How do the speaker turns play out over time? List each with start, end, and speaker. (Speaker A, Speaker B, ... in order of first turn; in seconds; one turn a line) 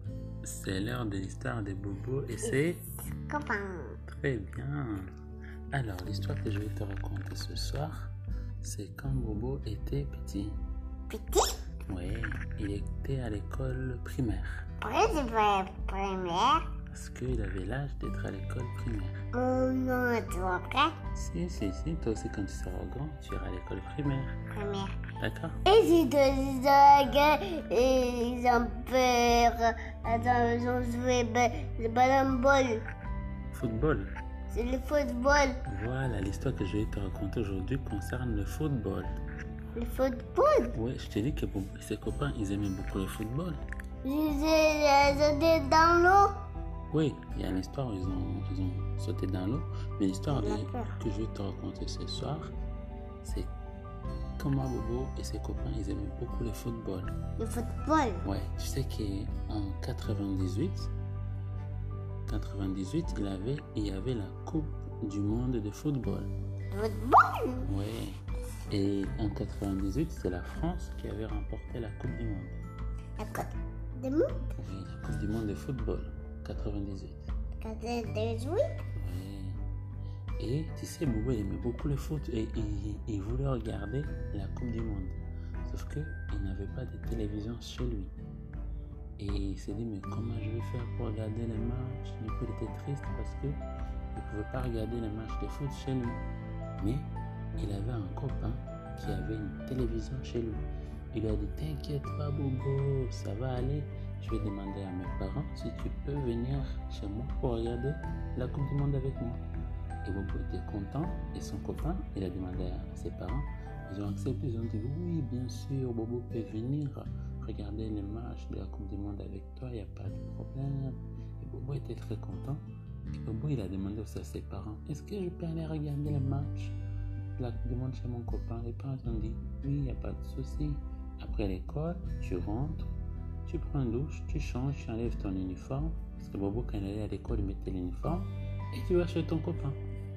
Speaker A: 0.4-2.8
Speaker B: 3.2-4.0
Speaker A: 4.1-5.1
Speaker A: 5.7-7.9
Speaker A: 8.6-10.6
Speaker B: 11.1-11.5
Speaker A: 11.9-14.6
Speaker B: 14.8-16.6
Speaker A: 16.9-19.1
Speaker B: 19.3-20.9
Speaker A: 21.1-24.4
Speaker B: 24.5-25.0
Speaker A: 25.2-25.6
Speaker B: 25.6-32.8
Speaker A: 33.5-34.1
Speaker B: 34.5-35.6
Speaker A: 35.6-39.2
Speaker B: 39.8-40.8
Speaker A: 40.7-43.6
Speaker B: 44.0-46.3
Speaker A: 46.9-52.5
Speaker B: 50.3-51.0
Speaker A: 53.2-53.5
Speaker A: 54.4-57.1
Speaker B: 57.4-58.3
Speaker A: 58.2-60.9
Speaker A: 62.3-66.3
Speaker B: 66.7-67.7
Speaker A: 67.6-68.1
Speaker A: 68.7-72.6
Speaker B: 73.2-74.5
Speaker A: 74.6-77.3
Speaker B: 77.6-78.7
Speaker A: 79.0-79.6
Speaker A: 80.4-88.1
Speaker A: 89.2-93.6
Speaker A: 94.1-96.2
Speaker A: 96.8-109.4
Speaker A: 110.0-122.7
Speaker A: 123.2-126.7
Speaker A: 127.4-132.9
Speaker A: 133.4-139.8